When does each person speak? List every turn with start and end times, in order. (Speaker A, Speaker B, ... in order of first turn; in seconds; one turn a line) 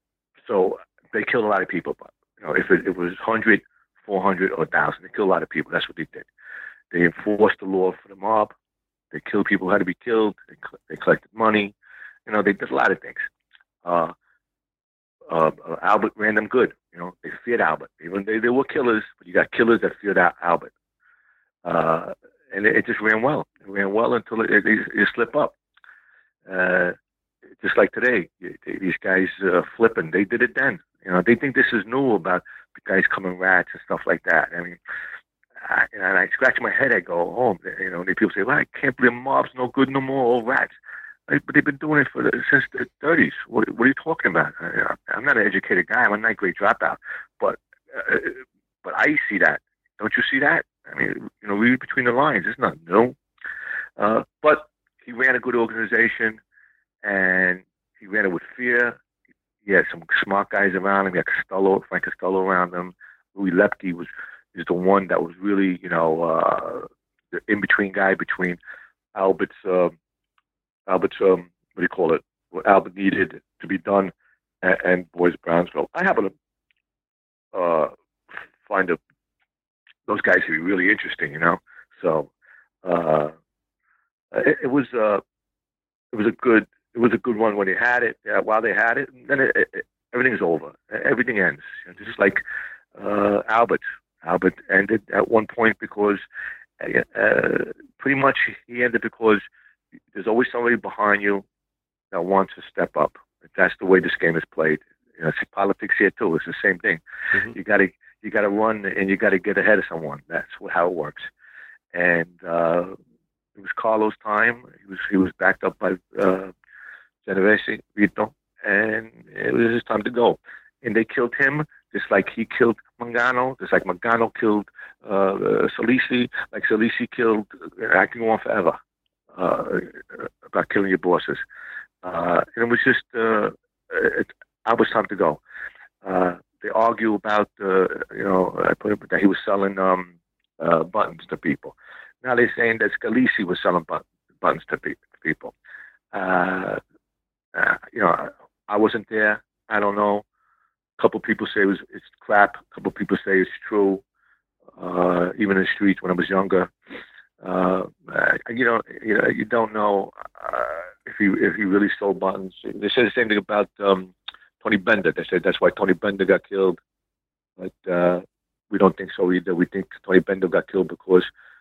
Speaker A: 0.5-6.3
Speaker A: 6.9-8.5
Speaker A: 9.1-11.7
Speaker A: 12.2-13.2
Speaker A: 13.8-14.1
Speaker A: 15.3-20.7
Speaker A: 21.6-25.5
Speaker A: 26.5-26.9
Speaker A: 27.6-34.8
Speaker A: 35.6-40.7
Speaker A: 41.3-53.1
Speaker A: 54.0-56.4
Speaker A: 57.0-59.0
Speaker A: 59.6-68.6
Speaker A: 69.1-69.9
Speaker A: 70.9-76.3
Speaker A: 77.5-79.0
Speaker A: 80.1-82.3
Speaker A: 82.8-83.3
Speaker A: 84.3-85.2
Speaker A: 86.1-92.4
Speaker A: 93.0-96.2
Speaker A: 96.8-99.4
Speaker A: 100.1-101.4
Speaker A: 102.1-111.3
Speaker A: 111.9-113.0
Speaker A: 113.6-116.5
Speaker A: 117.2-128.8
Speaker A: 129.3-131.4
Speaker A: 132.0-135.4
Speaker A: 136.0-145.5
Speaker A: 146.1-146.8
Speaker A: 147.5-150.2
Speaker A: 151.0-154.0
Speaker A: 154.8-156.7
Speaker A: 157.4-166.8
Speaker A: 167.6-171.3